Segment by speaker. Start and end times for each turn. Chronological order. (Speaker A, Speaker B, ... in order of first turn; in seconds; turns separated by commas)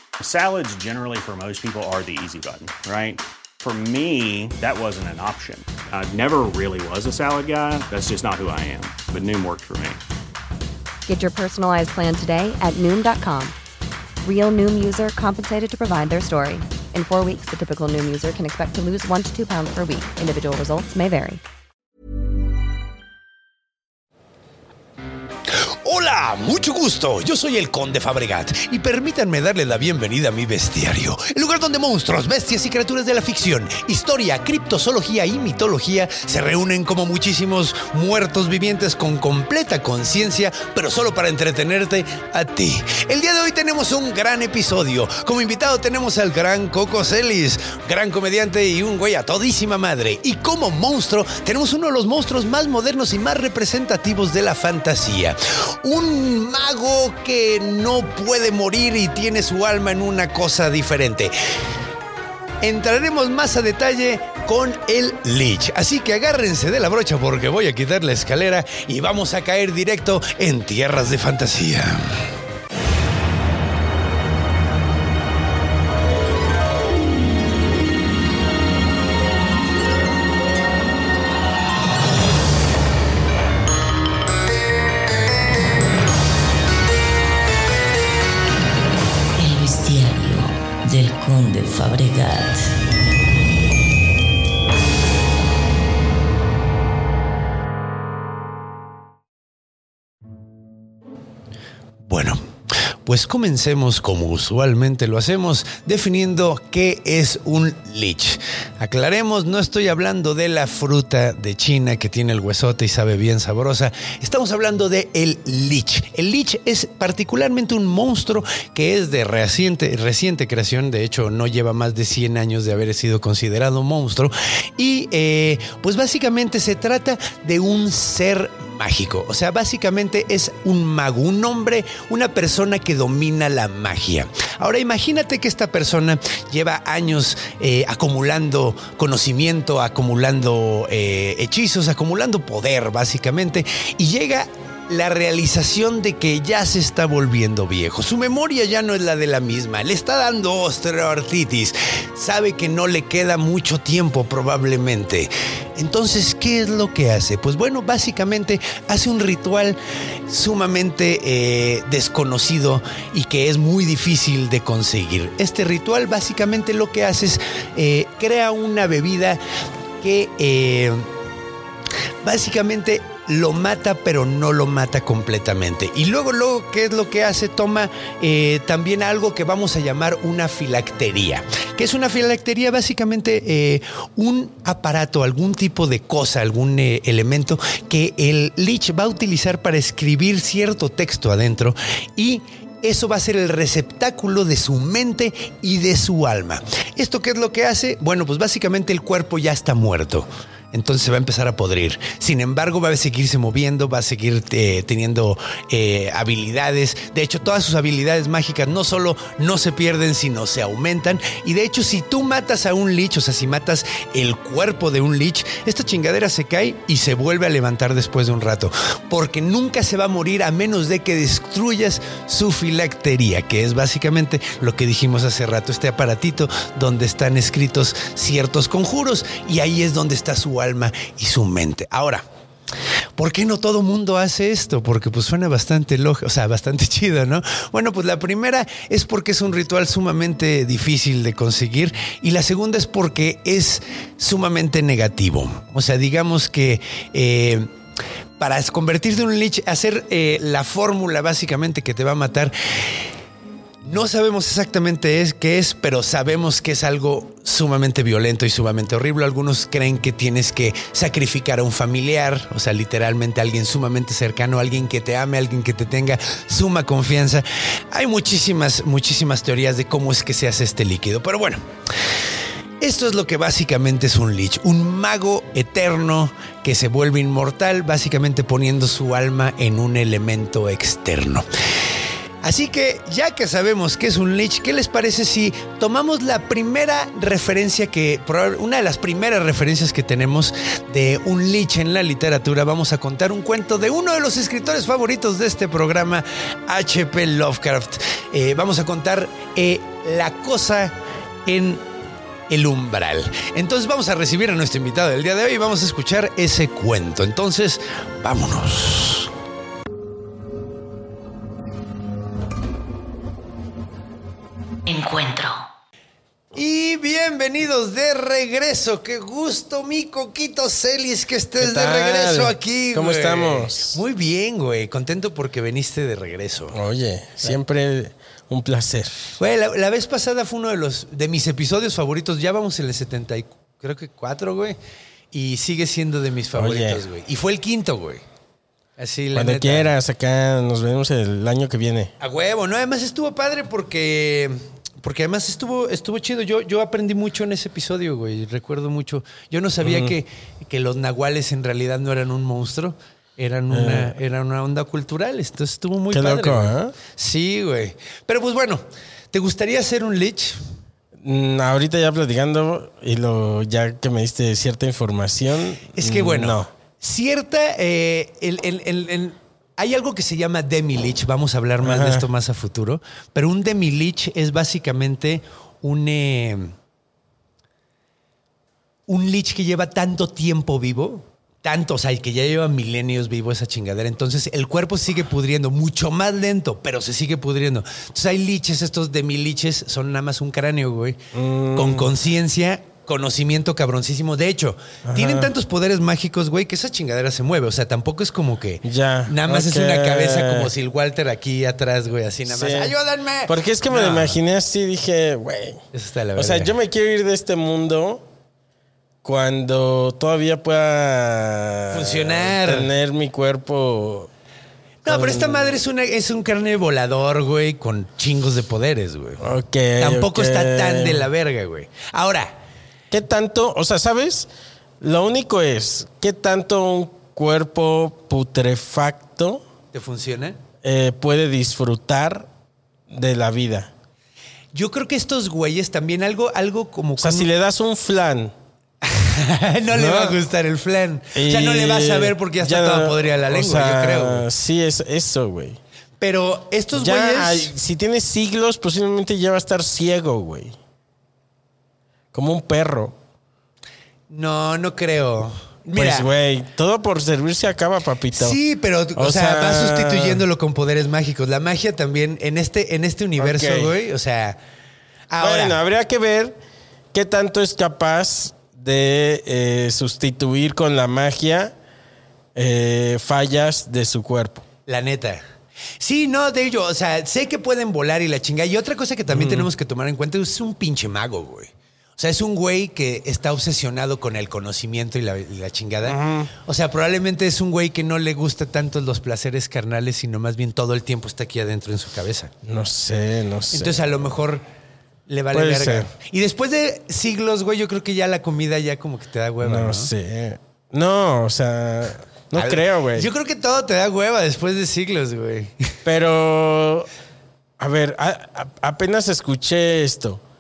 Speaker A: 0.2-10.0, Speaker B: 11.1-13.6, Speaker B: 14.2-21.4, Speaker C: 25.5-61.4, Speaker C: 62.6-72.2, Speaker D: 89.4-92.7, Speaker C: 102.1-102.4, Speaker C: 103.0-169.4, Speaker C: 170.0-171.1, Speaker C: 172.2-232.2, Speaker C: 233.2-247.7, Speaker C: 248.4-253.0, Speaker C: 253.8-271.6, Speaker C: 272.8-281.5, Speaker C: 282.4-301.9, Speaker C: 302.5-309.3, Speaker D: 314.9-315.6, Speaker C: 316.5-326.8, Speaker E: 321.6-324.0, Speaker E: 326.7-329.1, Speaker C: 329.4-334.8, Speaker C: 335.3-338.2, Speaker E: 336.6-337.0, Speaker C: 339.0-339.9, Speaker E: 339.3-342.1, Speaker C: 342.2-360.6, Speaker E: 349.8-350.1, Speaker E: 353.7-354.1, Speaker E: 356.1-357.0, Speaker E: 361.2-366.7, Speaker C: 365.9-376.8, Speaker E: 371.8-372.3, Speaker C: 379.1-391.2, Speaker E: 391.3-392.1, Speaker C: 391.8-404.4, Speaker E: 395.1-395.5, Speaker E: 398.8-400.7, Speaker E: 402.5-402.9, Speaker E: 403.5-405.8, Speaker C: 405.9-406.7, Speaker E: 406.4-408.2, Speaker E: 409.2-414.3, Speaker C: 411.9-412.9, Speaker C: 415.1-419.4, Speaker E: 415.1-415.8, Speaker E: 419.4-421.3, Speaker C: 420.0-422.6, Speaker E: 423.1-424.5, Speaker E: 425.0-429.6, Speaker C: 429.9-430.6, Speaker E: 430.8-432.5, Speaker E: 433.1-433.9, Speaker C: 434.7-437.5, Speaker E: 437.2-438.5, Speaker C: 439.0-444.4, Speaker E: 439.9-440.4, Speaker E: 441.4-445.8, Speaker C: 446.2-447.7, Speaker E: 446.9-450.8, Speaker E: 452.3-453.1, Speaker C: 454.3-456.3, Speaker E: 456.0-458.6, Speaker C: 458.3-464.6, Speaker E: 459.2-460.4, Speaker E: 463.4-463.9, Speaker C: 465.3-465.8, Speaker E: 465.4-466.6, Speaker E: 467.1-471.7, Speaker E: 472.6-474.7, Speaker C: 474.9-475.4, Speaker C: 476.0-492.5, Speaker E: 479.3-479.7, Speaker E: 486.0-486.5, Speaker E: 492.6-494.0, Speaker C: 493.7-494.6, Speaker C: 495.3-500.1, Speaker E: 495.5-496.1, Speaker E: 499.6-503.3, Speaker C: 502.5-505.9, Speaker E: 506.1-507.1, Speaker E: 507.8-510.4